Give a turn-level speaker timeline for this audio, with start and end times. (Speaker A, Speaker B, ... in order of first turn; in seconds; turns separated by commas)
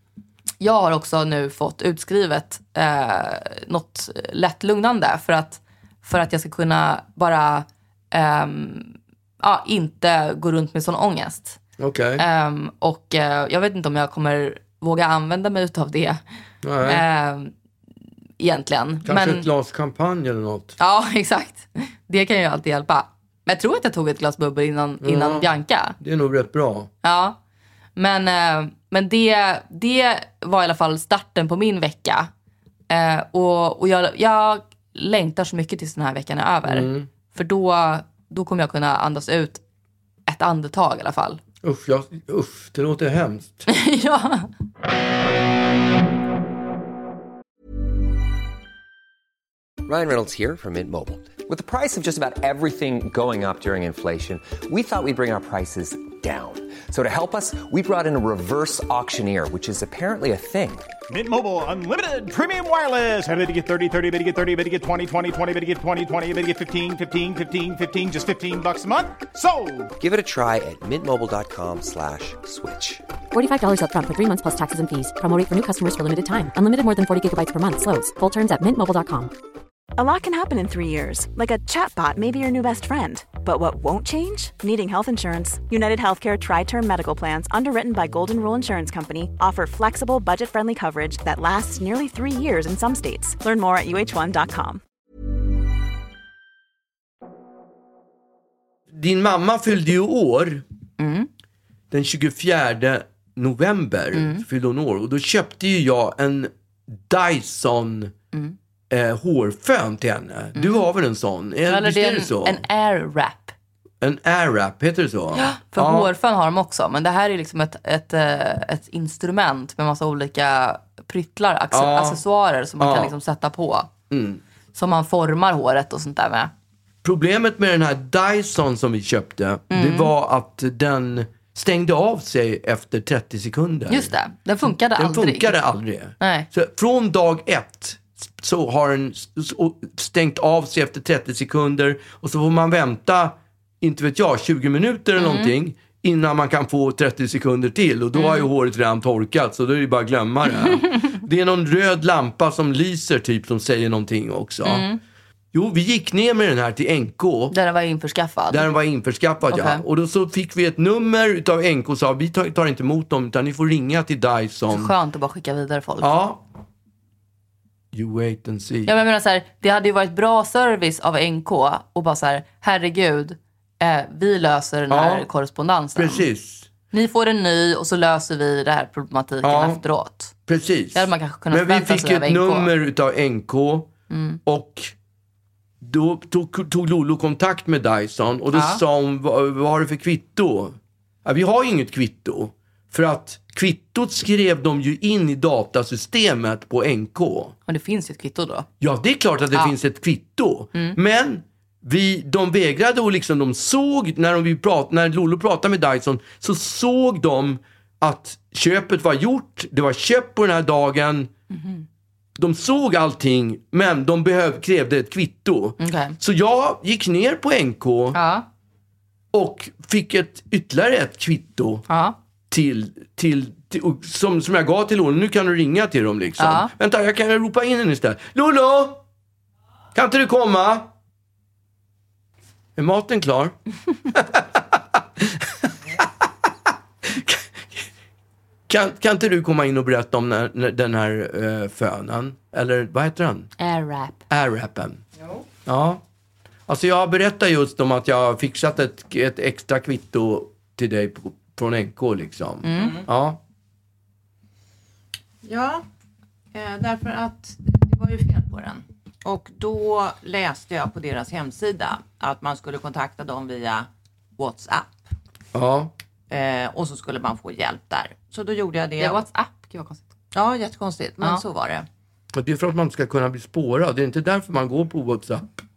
Speaker A: 0.6-11.6, Speaker B: 11.8-12.2, Speaker A: 12.2-16.2, Speaker B: 16.6-17.0, Speaker A: 16.8-17.5, Speaker A: 18.4-19.5, Speaker B: 19.1-20.8, Speaker A: 20.8-26.0, Speaker B: 25.0-26.9, Speaker A: 27.0-27.4, Speaker A: 28.0-32.3, Speaker A: 32.9-39.6, Speaker B: 36.7-37.1, Speaker A: 40.3-41.4, Speaker B: 41.6-43.6, Speaker A: 43.7-44.5, Speaker C: 49.9-60.9, Speaker D: 61.1-69.9, Speaker C: 70.0-73.0, Speaker E: 73.3-79.3, Speaker F: 80.0-94.8, Speaker B: 98.9-100.6, Speaker A: 101.0-101.3, Speaker B: 101.9-108.1, Speaker A: 104.1-104.4, Speaker B: 108.9-112.6, Speaker A: 110.5-110.9, Speaker A: 111.7-113.5, Speaker B: 114.0-116.1, Speaker A: 115.3-123.9, Speaker B: 121.7-122.2, Speaker B: 122.8-123.1, Speaker B: 124.1-124.4, Speaker A: 124.7-126.5, Speaker B: 127.0-134.1, Speaker A: 129.7-130.1, Speaker A: 133.9-135.6, Speaker B: 134.6-154.9, Speaker A: 136.2-136.5, Speaker A: 145.2-145.5, Speaker A: 148.2-148.5, Speaker A: 154.6-155.0, Speaker B: 155.5-157.6, Speaker A: 157.5-158.7, Speaker B: 158.5-164.9, Speaker A: 159.5-159.8, Speaker A: 164.7-166.1, Speaker B: 166.0-166.4, Speaker B: 167.9-168.9, Speaker A: 168.9-176.3, Speaker B: 174.9-175.3, Speaker B: 176.0-176.7, Speaker A: 176.9-180.3, Speaker B: 179.4-179.8, Speaker B: 180.5-183.9, Speaker A: 180.9-182.7, Speaker A: 184.1-184.4, Speaker B: 184.5-184.9, Speaker B: 185.8-197.6, Speaker A: 188.5-188.8, Speaker A: 197.7-198.7, Speaker B: 198.8-211.3, Speaker A: 211.5-211.8, Speaker B: 212.4-218.2, Speaker A: 215.8-216.2, Speaker A: 218.1-218.5, Speaker B: 219.3-221.8, Speaker A: 221.9-222.2, Speaker B: 222.5-229.0, Speaker A: 226.4-226.7, Speaker B: 229.9-230.9, Speaker B: 232.8-233.6, Speaker B: 234.1-235.7, Speaker B: 237.0-237.9, Speaker B: 238.7-243.5, Speaker A: 243.6-244.2, Speaker B: 244.3-245.0, Speaker B: 245.7-246.0, Speaker B: 246.7-253.4, Speaker A: 252.6-253.0, Speaker G: 252.7-253.1, Speaker G: 255.4-255.8, Speaker G: 256.5-265.1, Speaker B: 265.5-265.9, Speaker G: 266.3-269.2, Speaker A: 269.0-270.1, Speaker G: 270.3-271.9, Speaker B: 272.3-275.6